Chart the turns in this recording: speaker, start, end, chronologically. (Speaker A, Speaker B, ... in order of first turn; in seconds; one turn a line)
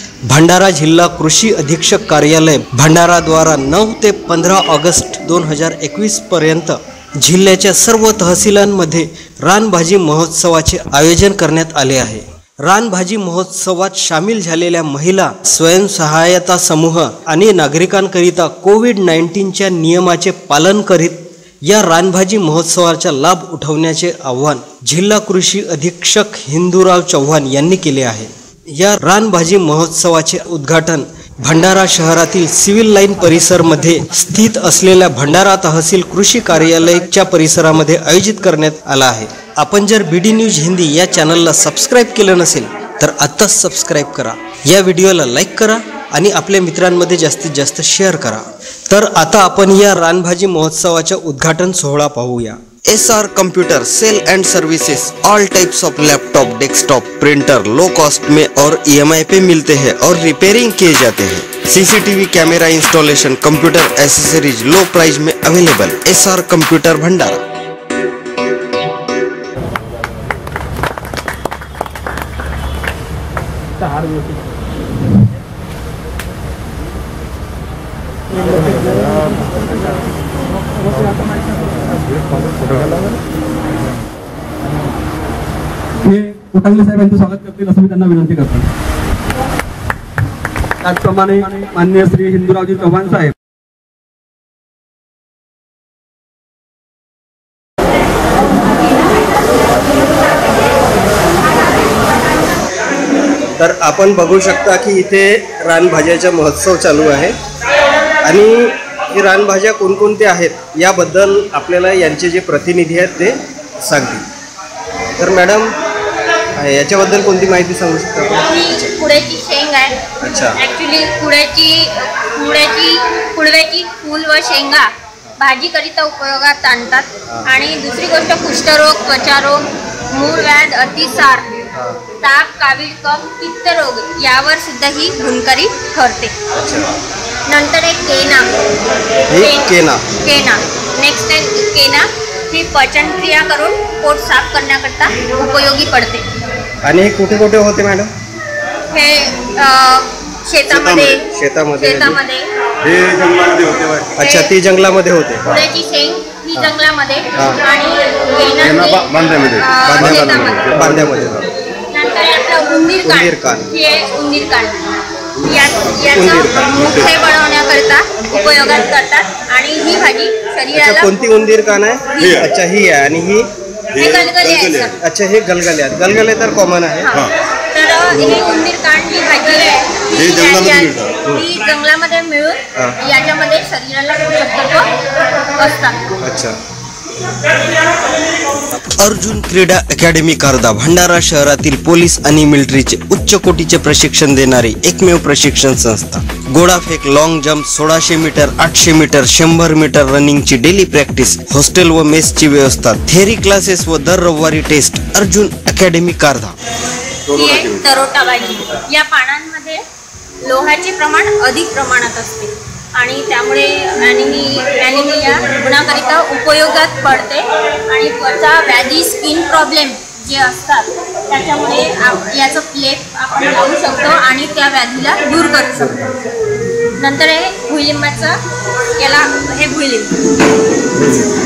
Speaker A: 0.3-67.4
Speaker B: 86.0-88.7
Speaker B: 90.9-93.3
Speaker A: 103.6-107.4
Speaker A: 108.2-114.2
Speaker A: 115.2-115.7
Speaker A: 116.6-118.9
Speaker C: 118.3-120.0
Speaker A: 120.2-120.6
Speaker C: 120.6-131.5
Speaker C: 132.2-136.3
Speaker A: 136.6-136.9
Speaker C: 137.5-138.5
Speaker A: 139.3-140.1
Speaker C: 139.4-146.3
Speaker A: 146.8-148.1
Speaker C: 148.9-151.2
Speaker A: 151.1-152.2
Speaker C: 151.8-152.5
Speaker D: 152.8-154.1
Speaker A: 154.1-155.5
Speaker C: 154.2-154.5
Speaker C: 155.5-160.7
Speaker D: 159.2-161.4
Speaker A: 159.8-161.4
Speaker C: 161.9-164.8
Speaker A: 163.0-163.7
Speaker C: 165.4-171.1
Speaker A: 166.1-166.8
Speaker A: 170.7-173.5
Speaker C: 172.2-172.5
Speaker C: 173.9-175.0
Speaker D: 174.1-174.6
Speaker A: 175.0-177.1
Speaker C: 177.0-184.9
Speaker A: 181.2-181.5
Speaker C: 185.4-186.0
Speaker A: 186.2-186.6
Speaker A: 188.8-206.6
Speaker C: 207.3-209.8
Speaker C: 210.4-226.0
Speaker A: 225.8-226.1
Speaker C: 227.0-228.4
Speaker C: 229.0-230.2
Speaker A: 230.9-231.3